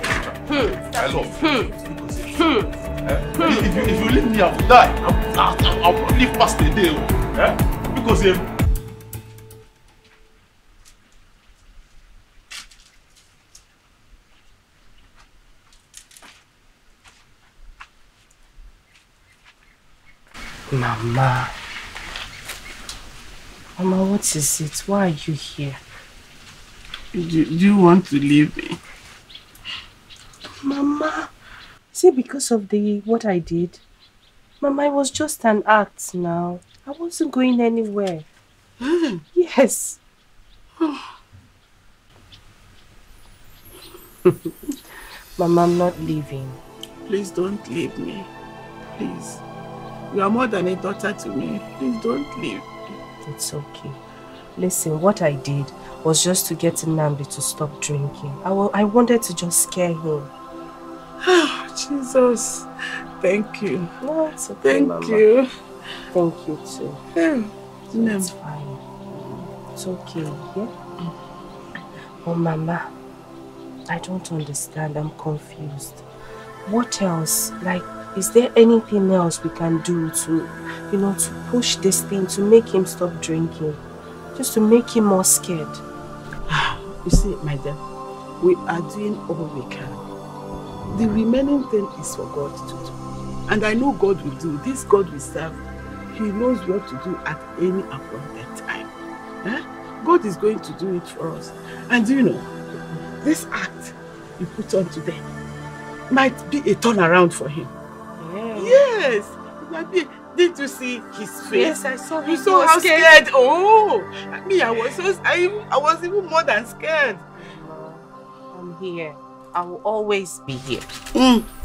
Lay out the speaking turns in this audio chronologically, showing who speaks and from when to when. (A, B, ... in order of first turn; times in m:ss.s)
0:00.5-0:00.8 A
0:00.8-0:01.4 B
0:00.9-0:02.2 C
0:01.4-0:01.7 A
0:02.3-0:02.7 A
0:03.0-0:08.5 C
0:03.4-0:03.7 A
0:20.7-0:21.5 A
0:23.8-0:25.8 A
0:27.2-0:28.8 B
0:30.6-0:31.3 A
0:31.9-0:33.8 A
0:34.6-0:38.3 A
0:38.8-0:39.2 B
0:39.4-0:40.0 A
0:44.3-0:44.5 A
0:45.4-0:46.6 A
0:47.1-0:48.3 B
0:49.0-0:49.4 B
0:50.1-0:52.7 B
0:53.2-0:54.0 A
0:54.6-1:00.3 A
1:01.2-1:02.7 B
1:03.2-1:03.9 B
1:04.0-1:05.3 A
1:04.6-1:05.5 B
1:06.1-1:07.0 A
1:07.2-1:08.3 B
1:07.9-1:08.8 A
1:09.1-1:09.5 B
1:09.8-1:10.7 A
1:12.2-1:12.9 A
1:13.9-1:16.0 A
1:16.7-1:23.8 A
1:24.4-1:25.8 A
1:26.5-1:27.8 B
1:28.4-1:30.0 B
1:30.9-1:32.9 B
1:33.5-1:35.6 B
1:36.1-1:38.9 B
1:39.4-1:42.5 B
1:43.2-1:45.2 B
1:46.1-1:47.7 B
1:48.2-1:48.8 A
1:48.6-1:57.2 B
1:51.5-1:53.2 A
1:57.4-2:00.9 A
2:01.1-2:01.5 B